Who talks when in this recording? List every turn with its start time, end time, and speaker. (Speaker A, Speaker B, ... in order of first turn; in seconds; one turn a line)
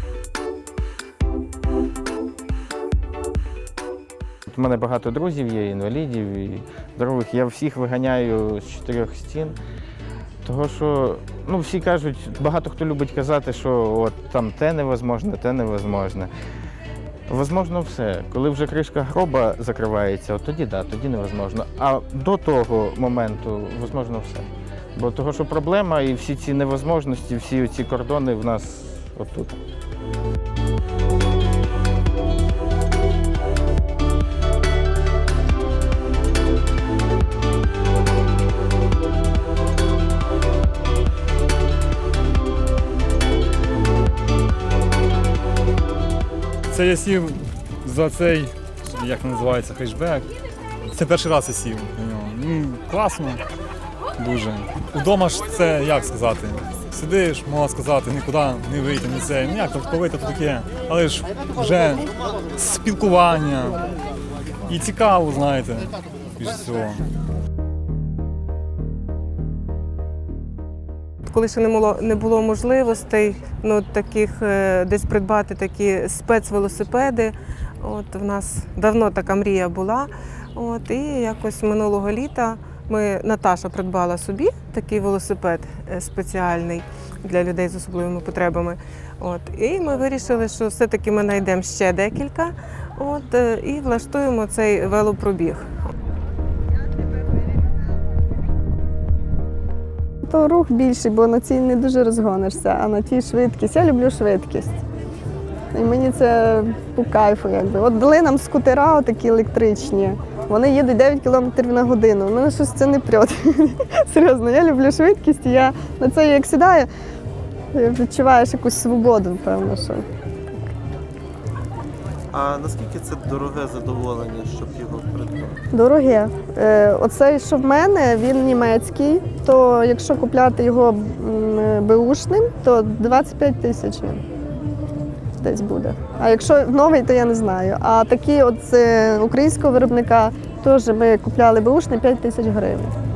Speaker A: 4.5-9.6
Speaker A: 10.4-16.3
Speaker A: 17.3-29.6
Speaker B: 46.7-50.3
Speaker B: 50.9-53.4
Speaker B: 54.2-63.9
Speaker B: 64.7-67.0
Speaker C: 71.2-95.9
Speaker D: 100.3-104.8
Speaker D: 105.7-116.9
Speaker D: 117.7-120.0
Speaker E: 122.3-125.6
Speaker D: 125.7-134.2
Speaker D: 135.4-142.9